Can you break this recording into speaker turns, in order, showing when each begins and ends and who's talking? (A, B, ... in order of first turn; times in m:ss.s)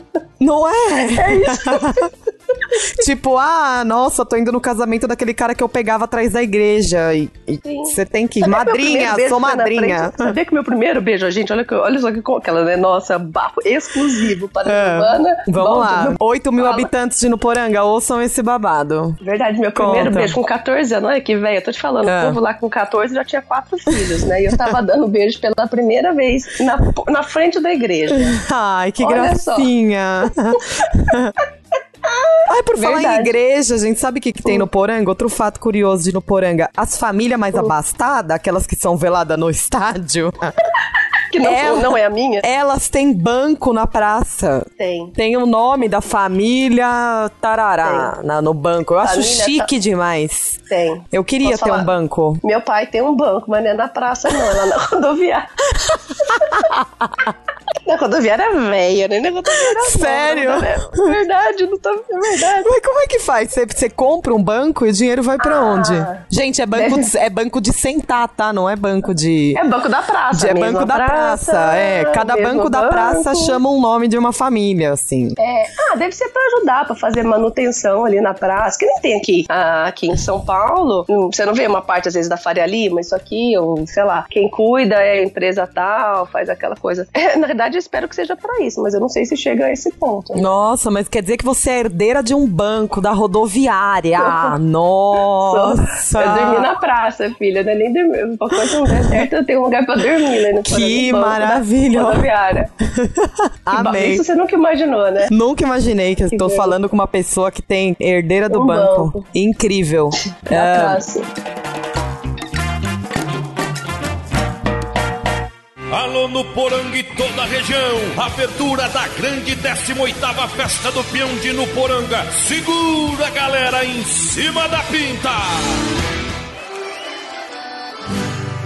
0:00.4-0:02.1 A
0:01.1-0:02.1 B
0:02.9-0:10.4 A
0:07.6-0:16.9 B
0:14.6-0:19.2 A
0:19.2-0:28.4 B
0:19.8-0:20.4 A
0:22.0-0:22.4 A
0:24.1-0:24.7 A
0:28.1-0:31.4 A
0:29.0-0:29.7 B
0:32.0-0:33.4 B
0:32.5-0:40.5 A
0:41.3-0:42.5 B
0:41.4-0:52.4 A
0:44.8-0:45.1 B
0:47.8-0:48.1 B
0:49.0-0:49.7 B
0:50.7-0:55.5 B
0:56.2-0:56.7 B
0:56.3-0:57.3 A
0:57.8-1:02.7 B
0:59.7-1:01.1 A
1:02.6-1:09.6 A
1:05.4-1:07.1 B
1:09.5-1:13.6 B
1:10.3-1:15.4 A
1:15.4-1:30.5 B
1:30.3-1:36.7 A
1:34.2-1:34.6 B
1:35.4-1:42.7 B
1:38.7-1:39.3 A
1:40.6-1:42.3 A
1:42.8-1:44.2 A
1:43.7-1:45.3 B
1:45.3-1:51.0 A
1:46.3-1:46.7 B
1:48.5-1:49.2 B
1:50.4-1:51.3 B
1:55.9-2:05.8 C